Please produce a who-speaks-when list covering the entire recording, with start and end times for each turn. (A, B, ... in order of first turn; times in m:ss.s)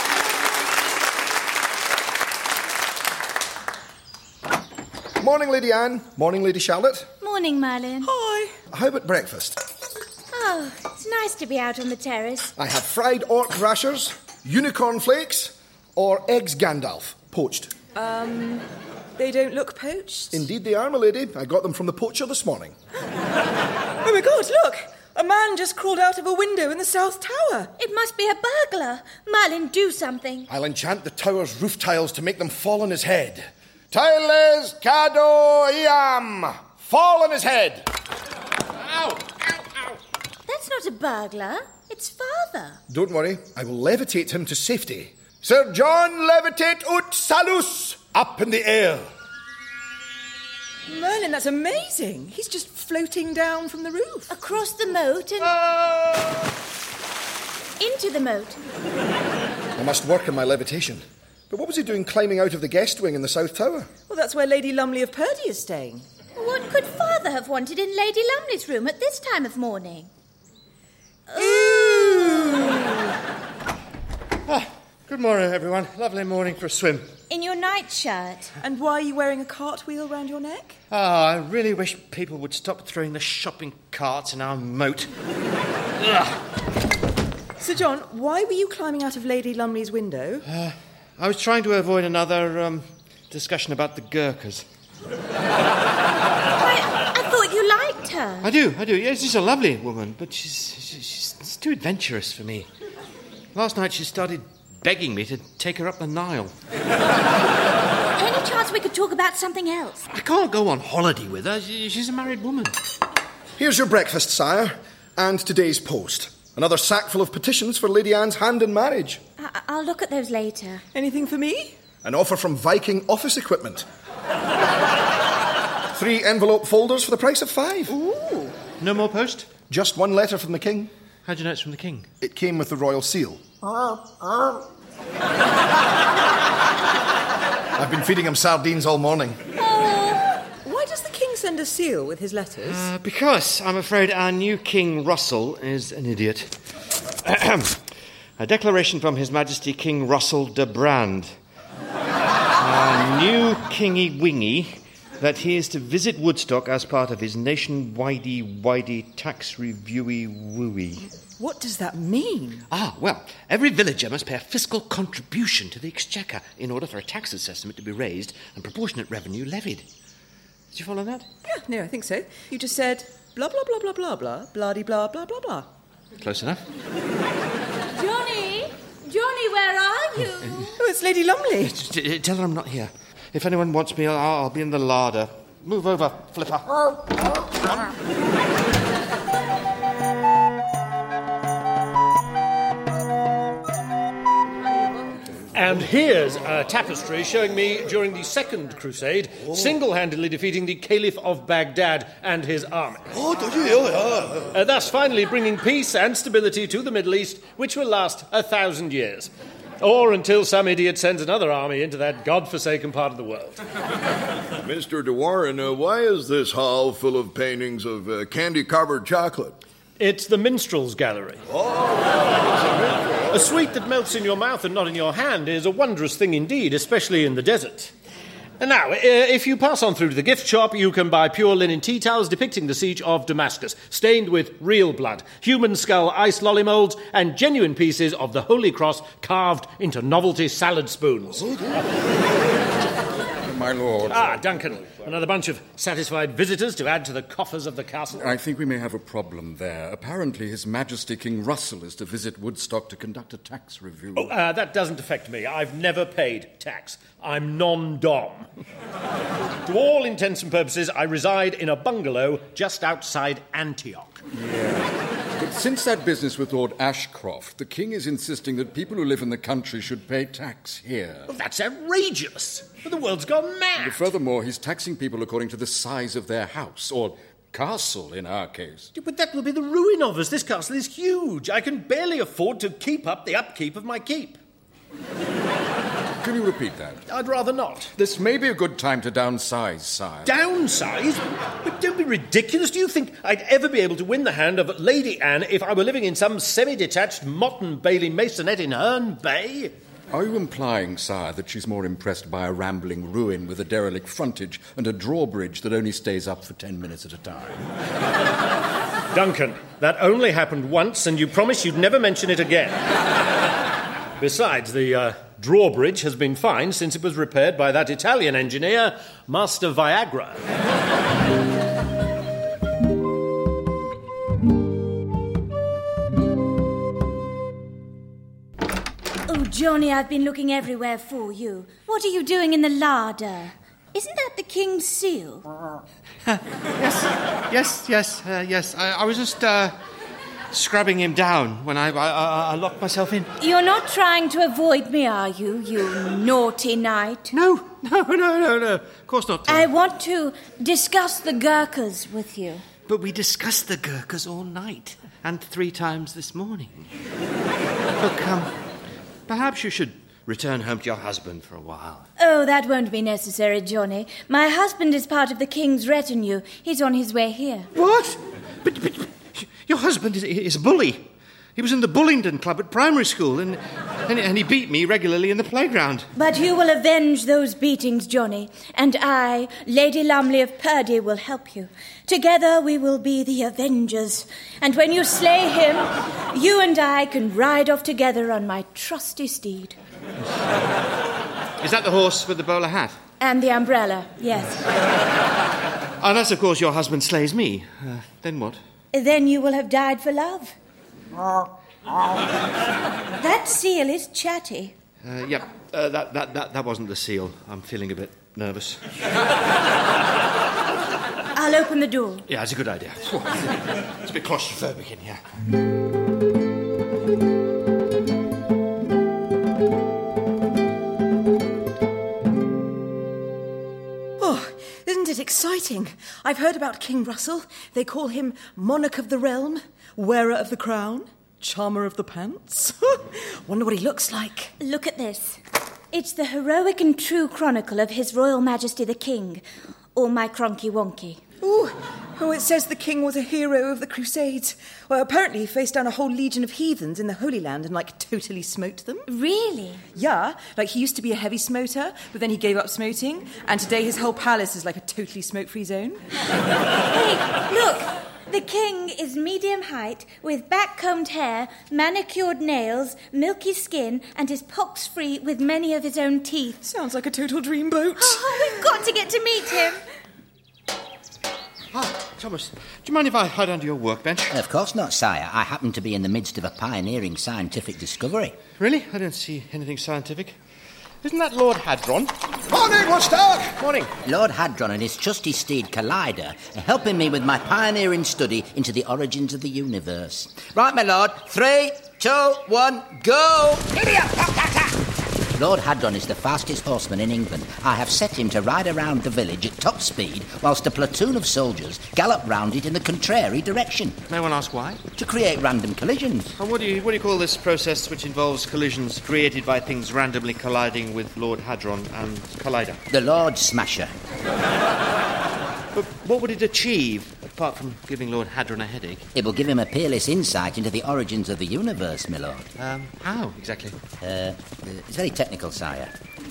0:05.2-0:07.1 A
0:07.2-0:08.1 B
0:08.0-0:08.6 C
0:08.7-0:09.6 A
0:10.3-0:12.5 B
0:12.6-0:17.7 A
0:17.9-0:20.5 C
0:20.3-0:22.8 A
0:24.0-0:27.7 C
0:27.8-0:30.5 B
0:30.5-0:37.9 A
0:39.0-0:39.6 A
0:40.5-0:42.8 B
0:42.9-0:49.1 A
0:50.9-0:54.3 C
0:54.3-0:55.6 B
0:57.8-0:58.6 B
0:59.8-1:03.9 A
1:04.1-1:06.1 C
1:06.4-1:10.1 B
1:11.3-1:12.9 B
1:11.4-1:12.9 C
1:14.5-1:17.1 D
1:17.3-1:18.5 B
1:18.6-1:20.8 C
1:20.9-1:25.1 D
1:27.6-1:30.4 C
1:30.4-1:34.6 D
1:36.6-1:38.5 B
1:38.4-1:42.7 D
1:43.5-1:46.5 D
1:48.2-1:50.0 B
1:50.1-1:52.8 D
1:53.6-1:59.2 A
1:59.4-2:00.8 B
2:00.9-2:01.8 C
2:02.0-2:03.8 A
2:05.9-2:08.0 A
2:07.9-2:08.5 C
2:08.7-2:09.6 D
2:09.7-2:10.9 A
2:11.2-2:12.1 D
2:12.2-2:13.4 A
2:17.8-2:19.4 A
2:19.6-2:22.9 C
2:22.6-2:26.5 D
2:27.2-2:27.8 D
2:28.4-2:31.3 D
2:32.6-2:41.1 D
2:41.4-2:42.6 C
2:42.7-2:49.8 D
2:50.7-2:51.3 D
2:51.4-2:55.7 C
2:56.2-2:56.6 D
2:57.9-3:00.7 B
3:00.8-3:01.8 C
3:01.7-3:06.7 D
3:15.5-3:23.1 E
3:23.3-3:23.8 A
3:24.0-3:24.4 D
3:24.5-3:33.6 E
3:34.6-3:39.6 F
3:40.0-3:41.4 E
3:41.5-3:43.2 F
3:43.3-3:47.9 E
3:48.6-4:01.5 E
4:01.5-4:01.8 G
4:03.4-4:04.3 G
4:04.1-4:08.3 E
4:08.2-4:14.3 G
4:14.2-4:18.5 E
4:19.6-4:24.2 E
4:24.3-4:31.3 G
4:31.3-4:34.1 E
4:33.8-4:38.9 G
4:38.9-4:44.4 E
4:46.2-4:47.0 G
4:47.1-4:47.9 E
4:47.9-4:50.3 G
4:50.2-4:59.7 E
5:00.1-5:07.6 G
5:09.1-5:13.0 E
5:14.2-5:20.4 E
5:29.2-5:35.4 B
5:36.3-5:39.7 D
5:40.5-5:43.3 D
5:43.4-5:47.3 B
5:47.3-5:49.7 D
5:49.5-5:52.6 B
5:52.9-5:56.9 D
5:58.0-5:58.5 D
5:59.3-6:02.0 D
6:02.2-6:07.7 B
6:07.7-6:11.0 D
6:11.6-6:16.1 D
6:16.1-6:29.7 B
6:31.6-6:33.0 D
6:33.2-6:34.7 B
6:36.0-6:38.6 D
6:38.9-6:40.5 B
6:43.2-6:44.7 B
6:45.0-6:48.8 D
6:51.3-6:52.2 B
6:52.3-6:53.3 D
6:54.0-6:55.2 D
7:04.2-7:14.5 C
7:14.6-7:15.4 B
7:15.9-7:19.4 B
7:19.9-7:21.2 B
7:21.4-7:29.0 C
7:29.1-7:29.8 B
7:29.9-7:36.0 C
7:36.9-7:46.6 B
7:46.6-7:48.5 C
7:48.0-7:49.8 B
7:51.7-7:54.3 D
7:54.3-7:58.4 H
7:58.6-8:00.4 D
8:01.0-8:02.1 D
8:02.5-8:03.6 A
8:03.6-8:03.9 D
8:04.0-8:14.8 H
8:15.3-8:24.0 H
8:24.1-8:24.8 D
8:24.9-8:26.3 H
8:26.4-8:32.8 D
8:32.9-8:33.9 H
8:35.7-8:39.1 D
8:39.1-8:42.5 H
8:42.6-8:43.8 D
8:44.0-8:45.9 H